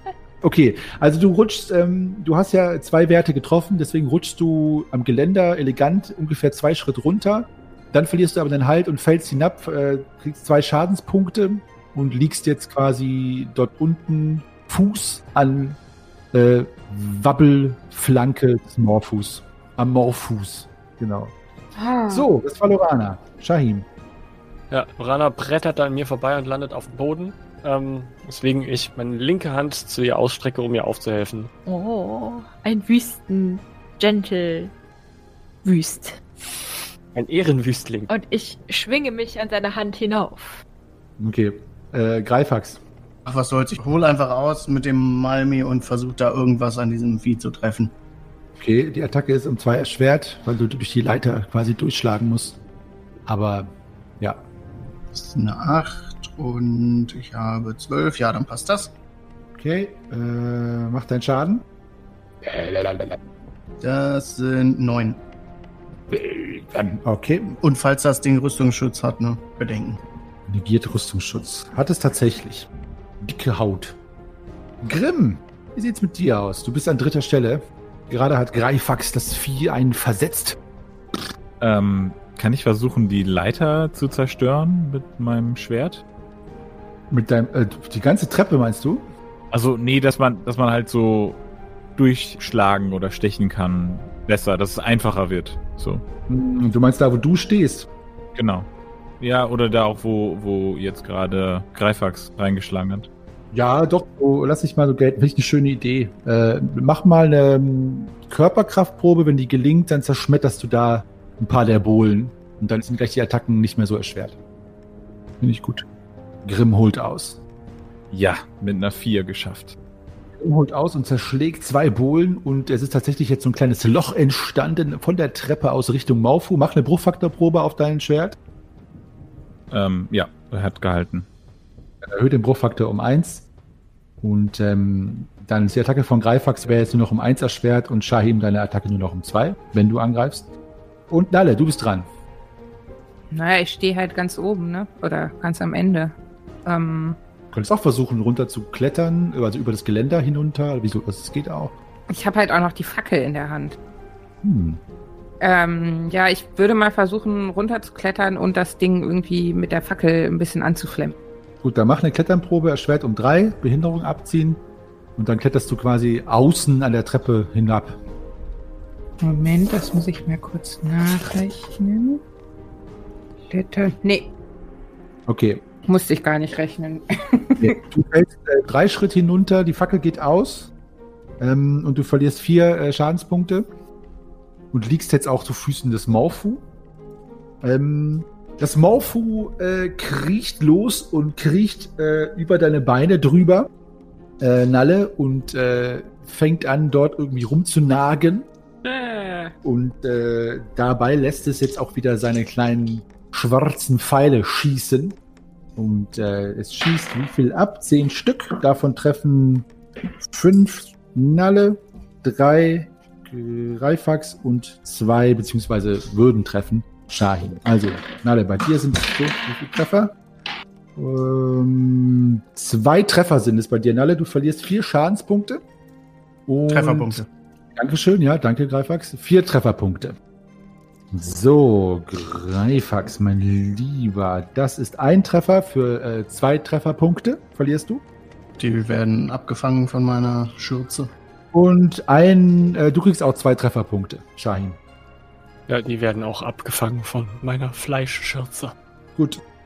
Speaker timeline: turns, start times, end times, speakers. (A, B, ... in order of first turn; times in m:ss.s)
0:00.4-0:15.8 A
0:16.3-0:21.3 A
0:21.8-0:22.3 B
0:22.1-0:23.9 A
0:24.7-0:31.5 C
0:31.7-0:34.7 B
0:35.6-0:36.2 B
0:37.1-0:38.1 C
0:38.1-0:40.6 B
0:41.2-0:42.8 A
0:43.3-0:47.9 D
0:48.6-0:52.6 A
0:53.3-0:54.4 A
0:55.1-0:58.9 D
0:59.6-1:01.6 A
1:02.4-1:03.2 A
1:03.8-1:05.2 D
1:06.1-1:07.6 A
1:07.6-1:10.0 D
1:10.5-1:12.7 A
1:13.2-1:14.0 A
1:14.8-1:20.6 A
1:21.6-1:26.0 E
1:27.1-1:29.1 A
1:29.5-1:31.4 E
1:32.0-1:36.0 E
1:36.3-1:37.9 A
1:38.4-1:38.7 E
1:39.2-1:43.1 E
1:43.5-1:54.4 A
1:55.4-1:55.9 A
1:56.4-1:57.4 A
1:58.1-1:59.8 E
2:00.4-2:08.4 A
2:09.7-2:11.3 E
2:12.0-2:13.5 A
2:14.2-2:20.5 A
2:21.1-2:22.1 A
2:23.3-2:26.1 F
2:26.6-2:27.2 F
2:27.5-2:31.8 A
2:32.1-2:33.8 F
2:34.4-2:34.8 A
2:35.4-2:41.2 F
2:41.6-2:44.6 A
2:45.2-2:48.0 A
2:49.2-2:52.2 F
2:53.5-2:54.3 F
2:55.3-2:55.6 A
2:55.8-2:57.7 F
2:57.6-3:00.7 A
3:01.4-3:03.7 A
3:04.7-3:06.6 A
3:07.6-3:13.7 A
3:14.4-3:18.5 A
3:18.8-3:19.5 F
3:19.6-3:25.2 A
3:25.8-3:29.7 A
3:30.3-3:40.2 A
3:41.0-3:45.6 A
3:46.5-3:47.2 A
3:46.7-3:47.3 D
3:47.8-3:50.2 A
3:51.1-3:58.0 A
3:58.6-4:01.1 D
4:01.5-4:04.8 A
4:05.7-4:08.7 C
4:09.2-4:09.4 A